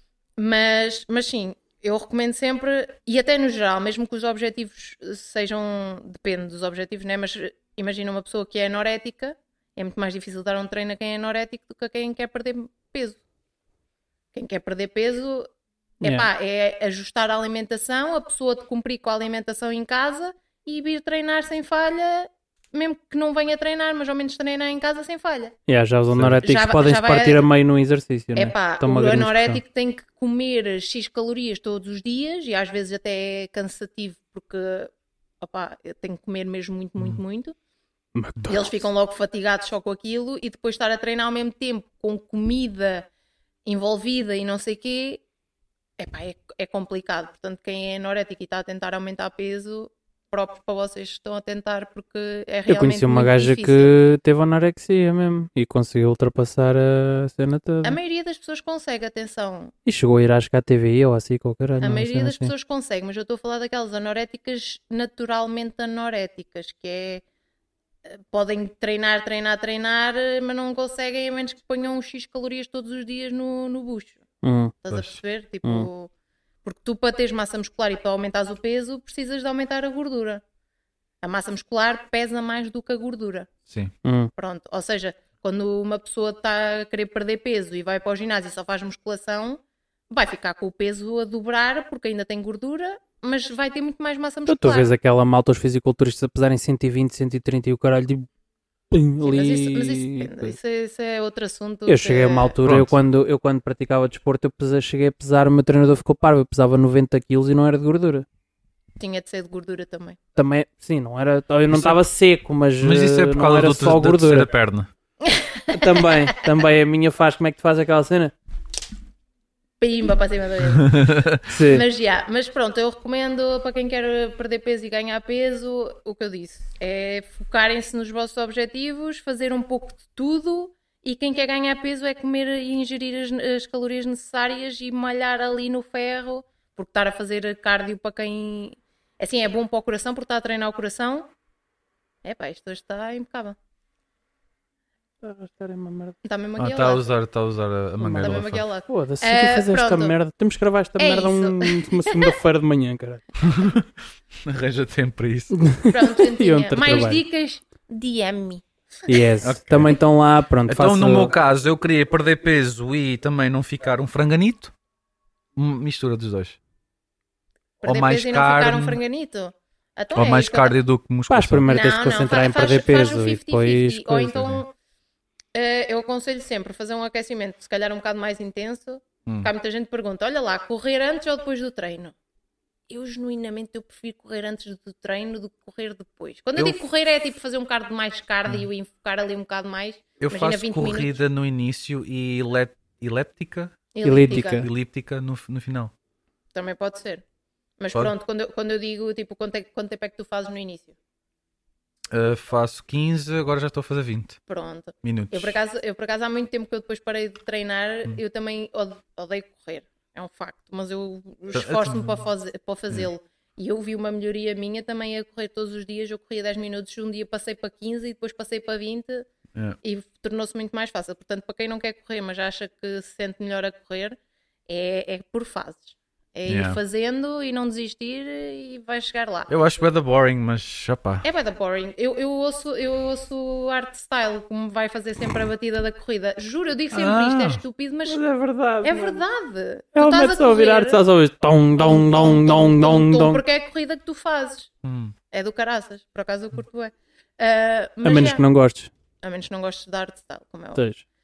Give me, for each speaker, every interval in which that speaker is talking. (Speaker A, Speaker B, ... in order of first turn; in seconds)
Speaker A: 0.4-13.2, 14.3-15.5, 16.0-25.5, 26.4-27.4, 28.4-37.5, 38.5-43.1, 43.6-45.2, 46.0-53.9, 57.8-59.7, 61.8-67.2, 68.1-74.2, 74.8-76.1, 76.6-80.4, 81.2-83.5, 84.3-94.9, 99.2-102.5, 109.0-110.2, 115.2-116.4, 119.8-121.1, 121.7-141.3, 142.2-143.6, 146.2-147.1, 148.2-150.1, 151.0-152.3, 155.9-158.6, 167.8-170.8, 171.7-174.7, 175.5-182.1, 182.9-191.2, 193.9-194.7, 196.5-197.2, 197.8-200.9, 204.5-219.3, 219.8-229.5, 231.2-238.2, 238.8-241.0, 241.8-244.7, 245.3-248.4, 249.2-250.8
Speaker B: 25.7-29.6, 38.1-38.7, 52.7-58.0, 59.9-62.5, 74.4-74.7, 84.0-84.3, 94.5-98.3, 98.9-100.5, 101.9-108.2, 110.3-114.5, 115.7-118.3, 121.5-121.8, 145.2-146.2, 148.0-153.2, 155.5-157.2, 159.1-161.3, 171.3-174.4, 194.0-194.7, 238.1-239.2, 239.9-243.4, 248.0-248.9, 250.8-251.0
Speaker C: 26.1-26.4, 74.9-75.2, 83.7-83.9, 102.6-103.0, 111.7-112.0, 112.8-114.9, 120.8-121.4, 146.6-148.6, 153.4-153.9, 154.4-155.5, 159.4-160.0, 160.7-164.7, 165.6-166.6, 167.8-169.0, 170.1-171.7, 174.3-174.6, 190.2-195.9, 202.1-204.4, 205.0-205.5, 211.5-212.2, 226.5-226.8, 229.5-231.2, 236.9-237.6, 244.8-245.1